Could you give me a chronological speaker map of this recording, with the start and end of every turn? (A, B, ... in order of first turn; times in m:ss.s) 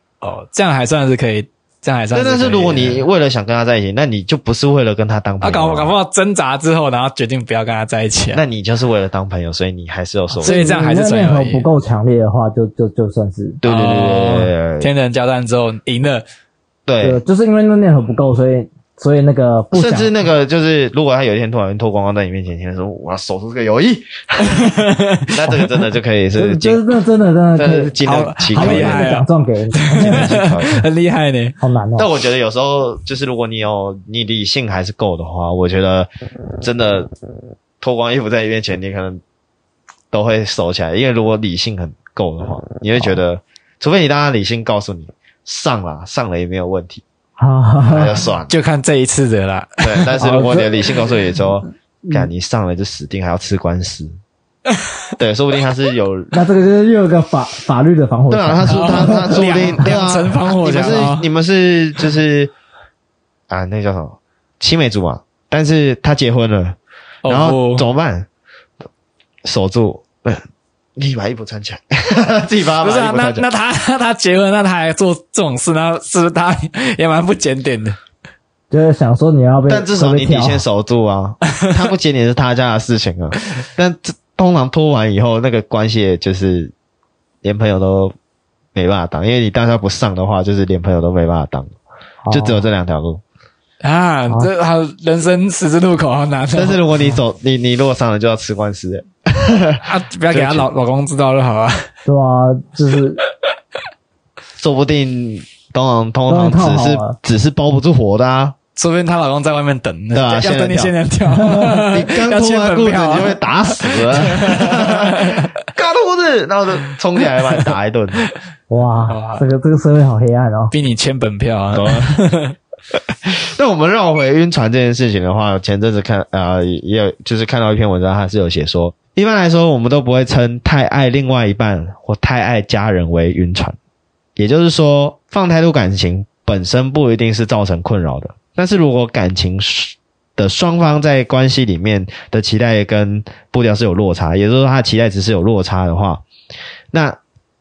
0:00.2-0:03.1 A
0:02.1-0:06.0 B
0:05.4-0:08.4 A
0:08.3-0:10.6 B
0:10.4-0:11.7 A
0:10.4-0:13.6 C
0:13.6-0:14.9 B
0:13.6-0:16.2 A
0:16.9-0:17.2 B
0:17.0-0:20.1 C
0:19.7-0:26.8 B
0:24.5-0:25.3 A
0:26.4-0:28.0 C
0:27.6-0:29.1 B
0:28.0-0:29.3 A
0:28.5-0:30.4 C
0:29.8-0:31.6 A
0:30.0-0:30.8 B
0:31.6-0:32.1 C
0:32.0-0:36.1 B
0:36.6-0:37.1 B
0:37.8-0:39.2 B
0:40.1-0:47.0 B
0:47.4-0:48.2 C
0:47.8-0:48.6 B
0:48.5-0:50.2 A
0:49.8-0:54.1 B
0:50.2-0:50.7 C
0:55.2-0:56.3 B
0:56.3-0:59.9 C
0:58.3-1:02.5 B
0:58.7-1:01.3 A
1:03.5-1:08.3 B
1:07.2-1:07.9 A
1:09.4-1:10.4 B
1:11.0-1:13.5 B
1:12.8-1:18.0 A
1:18.7-1:20.6 C
1:19.7-1:26.7 B
1:27.4-1:28.1 B
1:28.8-1:31.7 B
1:32.2-1:32.6 C
1:32.3-1:33.2 B
1:33.8-1:36.8 A
1:36.5-1:40.7 B
1:39.8-1:41.9 A
1:42.1-1:43.2 C
1:44.6-1:48.6 B
1:46.3-1:47.2 C
1:48.8-1:55.5 A
1:50.1-1:50.9 B
1:51.3-1:51.8 C
1:51.9-1:58.2 B
1:58.7-2:00.7 C
1:59.1-1:59.4 A
2:00.7-2:02.6 A
2:01.7-2:02.2 B
2:03.3-2:13.8 B
2:14.4-2:26.2 B
2:26.9-2:27.2 B